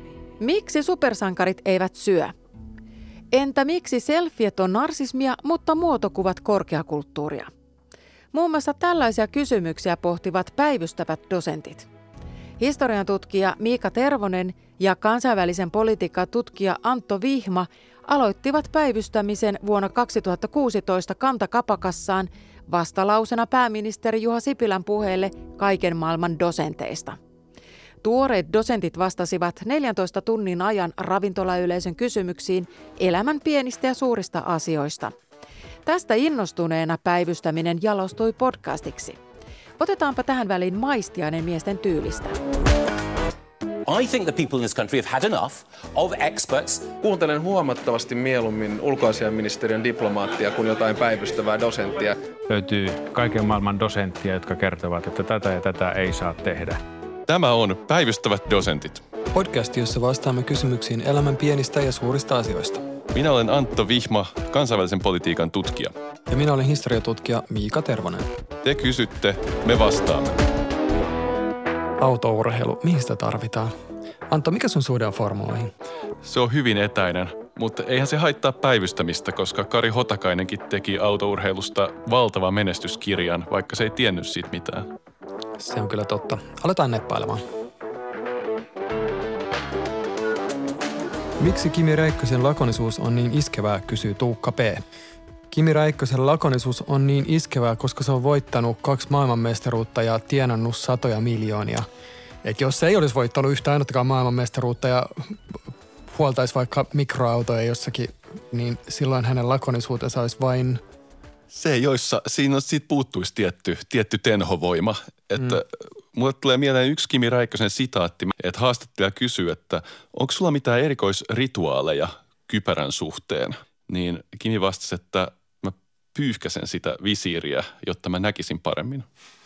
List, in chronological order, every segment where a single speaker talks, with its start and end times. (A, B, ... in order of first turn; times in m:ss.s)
0:00.4-0:02.3 A
0:03.3-0:07.5 A
0:08.3-0:11.9 A
0:12.6-0:27.2 A
0:28.0-0:35.1 A
0:35.8-0:39.2 A
0:39.8-0:42.4 A
0:43.8-0:46.9 B
0:47.0-0:52.2 C
0:52.5-0:56.8 D
0:57.3-0:59.0 E
0:59.3-1:02.8 F
1:03.1-1:05.9 E
1:06.3-1:08.3 F
1:08.6-1:10.4 E
1:12.0-1:13.8 F
1:14.3-1:15.7 F
1:16.2-1:24.9 E
1:25.6-1:27.4 F
1:31.4-1:34.8 F
1:35.5-1:41.9 F
1:42.4-1:45.6 F
1:46.1-1:50.8 F
1:51.5-2:09.1 E